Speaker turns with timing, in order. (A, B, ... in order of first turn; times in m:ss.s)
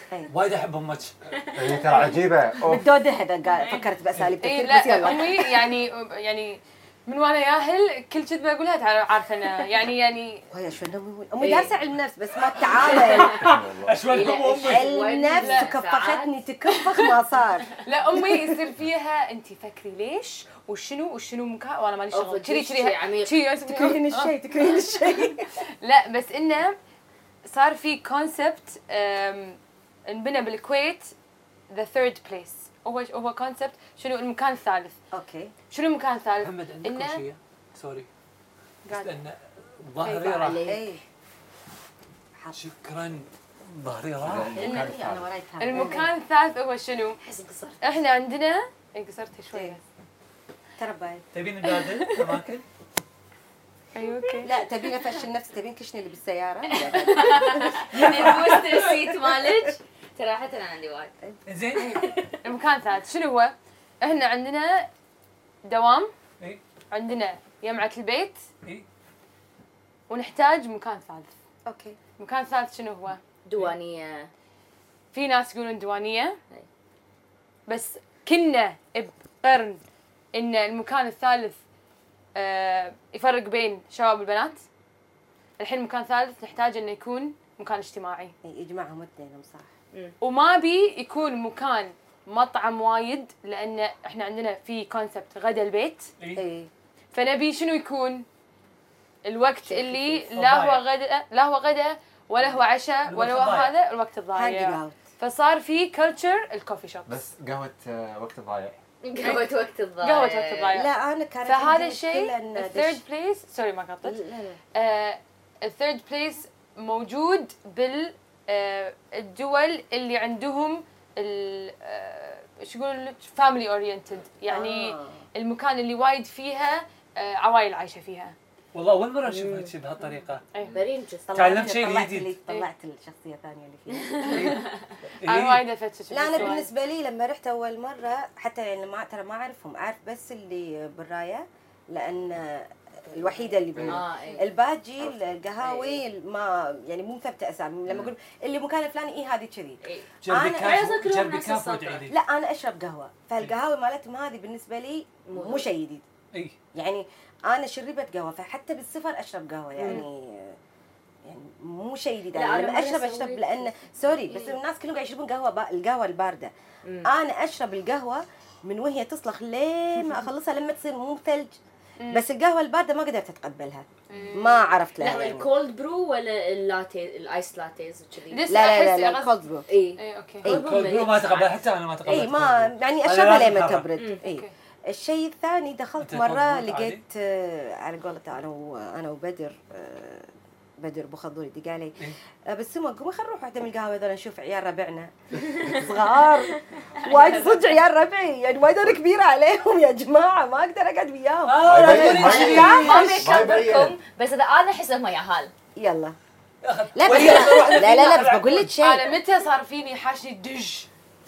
0:00.3-0:01.1 A
0:01.3-0:02.0 B
0:01.5-0:02.9 C
0:02.6-0:05.4 D
0:04.4-0:10.4 E
0:10.5-0:13.4 D
0:11.4-0:11.8 B
0:12.9-0:15.0 A
0:12.9-0:13.4 B
0:13.4-0:14.0 C
0:14.1-0:16.3 B
0:14.6-0:17.8 D
0:15.4-0:15.7 E
0:17.8-0:26.8 E
0:22.1-0:23.4 B
0:23.6-0:25.5 D
0:27.4-0:31.1 E
0:31.7-0:35.0 E
0:35.1-0:35.5 D
0:35.7-0:37.2 E
0:36.4-0:38.1 A
0:38.9-0:39.2 E
0:38.9-0:40.6 A
0:40.0-0:40.7 E
0:40.4-0:41.0 D
0:42.5-0:44.5 A
0:44.2-0:45.3 C
0:44.6-0:46.1 D
0:44.6-0:45.0 E
0:45.6-0:47.2 E
0:47.2-0:47.8 B
0:47.8-0:49.8 E
0:50.8-0:51.2 D
0:51.3-0:52.6 A
0:53.9-0:54.5 E
0:54.0-0:54.5 B
0:54.4-0:58.4 D
0:56.7-1:01.1 B
0:58.0-0:58.6 A
0:58.0-0:58.5 E
1:01.4-1:02.0 A
1:01.8-1:02.4 B
1:02.4-1:04.9 E
1:05.6-1:06.1 E
1:06.9-1:08.4 E
1:10.1-1:11.3 E
1:11.6-1:12.0 D
1:12.2-1:13.2 E
1:13.4-1:14.3 B
1:15.1-1:16.4 E
1:17.7-1:19.8 E
1:20.3-1:21.6 E
1:22.4-1:24.6 E
1:25.6-1:28.3 E
1:28.4-1:29.7 D
1:30.2-1:36.1 E
1:36.2-1:36.4 A
1:36.4-1:36.7 D
1:37.1-1:38.2 E
1:39.2-1:47.2 E
1:39.6-1:40.2 D
1:40.3-1:40.8 A
1:43.1-1:43.7 A
1:44.4-1:45.0 D
1:47.0-1:48.8 C
1:49.0-1:50.7 B
1:49.2-1:50.9 E
1:50.7-1:53.0 D
1:51.4-1:54.2 E
1:54.0-1:54.6 D
1:54.7-2:08.4 E
2:04.5-2:05.2 D
2:08.7-2:10.4 A
2:09.2-2:09.7 B
2:10.5-2:10.9 E
2:10.7-2:11.5 B
2:11.3-2:14.4 D
2:11.3-2:12.3 A
2:14.2-2:14.6 E
2:14.2-2:15.0 B
2:14.3-2:15.7 A
2:15.2-2:16.7 E
2:16.1-2:30.8 D
2:23.7-2:24.1 C
2:23.9-2:24.5 B
2:25.6-2:26.0 B
2:29.8-2:32.1 B
2:30.2-2:32.2 A
2:32.1-2:36.0 D
2:35.2-2:35.7 B
2:36.7-2:40.6 D
2:39.8-2:40.0 B
2:41.2-2:46.5 D
2:42.3-2:44.6 B
2:46.8-2:47.1 B
2:47.0-2:51.6 D
2:52.1-2:55.5 D
2:54.1-2:58.4 B
2:58.3-2:59.3 E
2:58.5-2:59.6 D
2:59.7-3:02.3 B
3:00.0-3:00.4 E
3:00.4-3:00.7 D
3:00.4-3:03.9 A
3:02.0-3:12.0 D
3:04.0-3:04.2 B
3:04.2-3:04.5 E
3:06.0-3:07.0 A
3:12.5-3:23.5 D
3:16.7-3:17.0 B
3:21.4-3:23.2 A
3:21.6-3:24.0 C
3:22.2-3:25.5 B
3:25.8-3:26.2 D
3:26.6-3:28.7 A
3:27.0-3:29.1 D
3:27.2-3:27.6 B
3:28.8-3:30.9 E